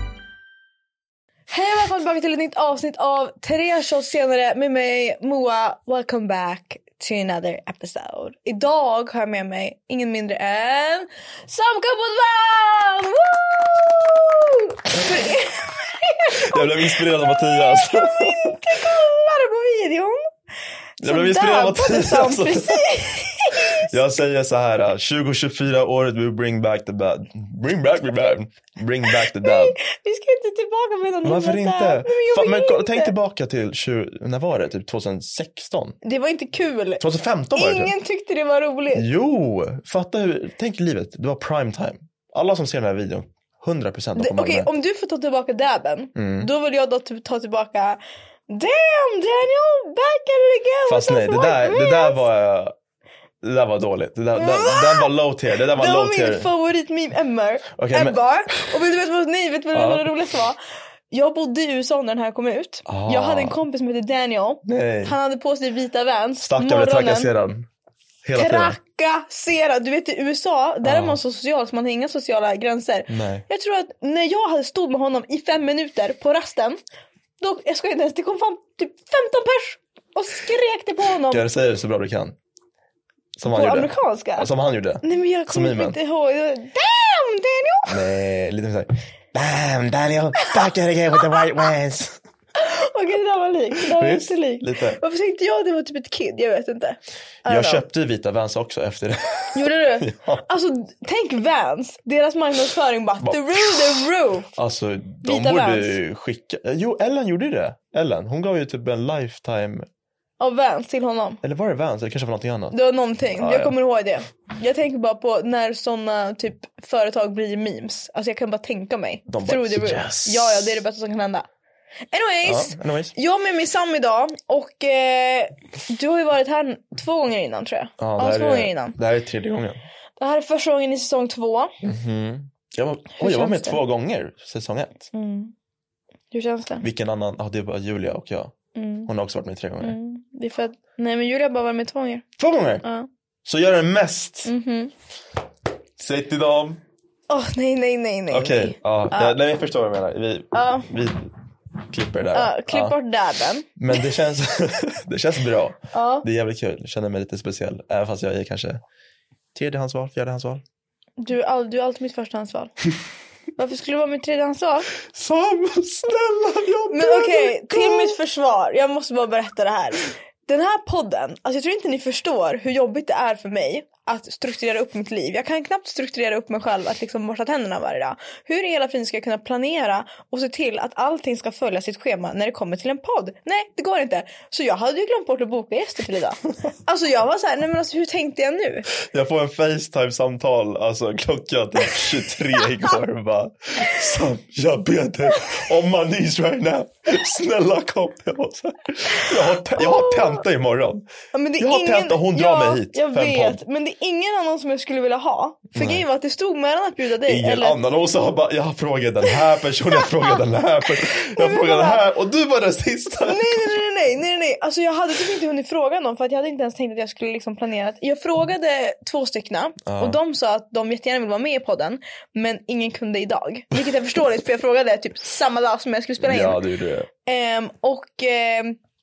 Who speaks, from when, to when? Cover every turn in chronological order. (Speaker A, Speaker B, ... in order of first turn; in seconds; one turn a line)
Speaker A: 1.5-20.2
Speaker B: 16.4-18.8
Speaker B: 21.0-22.9
Speaker A: 21.0-23.9
Speaker B: 23.6-29.8
Speaker A: 29.2-33.1
Speaker B: 31.2-36.0
Speaker A: 36.0-37.0
Speaker B: 37.0-37.9
Speaker A: 37.5-39.1
Speaker B: 38.9-44.7
Speaker A: 44.1-52.2
Speaker B: 46.1-46.5
Speaker B: 50.9-52.7
Speaker B: 53.4-56.5
Speaker A: 54.3-60.6
Speaker B: 57.7-58.2
Speaker B: 59.7-60.1
Speaker A: 61.1-67.3
Speaker B: 62.9-63.6
Speaker B: 64.6-65.2
Speaker B: 66.4-67.7
Speaker B: 68.2-68.8
Speaker A: 68.3-76.8
Speaker B: 70.8-71.2
Speaker B: 73.1-73.4
Speaker A: 77.4-81.4
Speaker B: 81.3-82.3
Speaker B: 83.4-86.0
Speaker A: 83.4-84.5
Speaker A: 85.0-88.0
Speaker B: 87.9-92.2
Speaker A: 92.5-97.8
Speaker B: 93.8-95.0
Speaker B: 97.5-100.4
Speaker A: 99.5-104.5
Speaker B: 103.2-109.9
Speaker A: 105.2-106.0
Speaker A: 110.4-111.4
Speaker B: 111.4-112.8
Speaker A: 112.7-121.5
Speaker B: 113.3-113.8
Speaker B: 119.3-120.8
Speaker A: 122.1-129.0
Speaker B: 122.4-123.1
Speaker B: 128.0-129.8
Speaker A: 130.2-131.7
Speaker B: 131.8-135.1
Speaker A: 133.2-133.8
Speaker A: 135.1-135.5
Speaker A: 136.3-136.8
Speaker B: 136.8-138.5
Speaker A: 138.7-139.1
Speaker B: 139.1-140.0
Speaker A: 139.8-142.2
Speaker B: 142.4-142.8
Speaker A: 142.8-143.1
Speaker B: 143.4-144.5
Speaker A: 144.4-144.9
Speaker B: 146.0-146.8
Speaker A: 147.3-149.4
Speaker B: 148.3-151.3
Speaker A: 150.5-150.9
Speaker B: 151.9-153.0
Speaker A: 152.3-154.0
Speaker B: 153.8-158.8
Speaker A: 155.9-156.2
Speaker B: 159.5-160.6
Speaker A: 161.2-162.7
Speaker A: 163.6-164.9
Speaker B: 165.0-168.2
Speaker A: 166.9-188.9
Speaker B: 189.0-201.1
Speaker A: 199.1-200.4
Speaker A: 201.3-207.8
Speaker B: 201.6-203.6
Speaker B: 205.7-206.0
Speaker B: 207.2-213.7
Speaker A: 210.0-212.0
Speaker A: 213.2-226.6
Speaker B: 219.8-220.2
Speaker B: 226.2-227.1
Speaker A: 227.2-228.8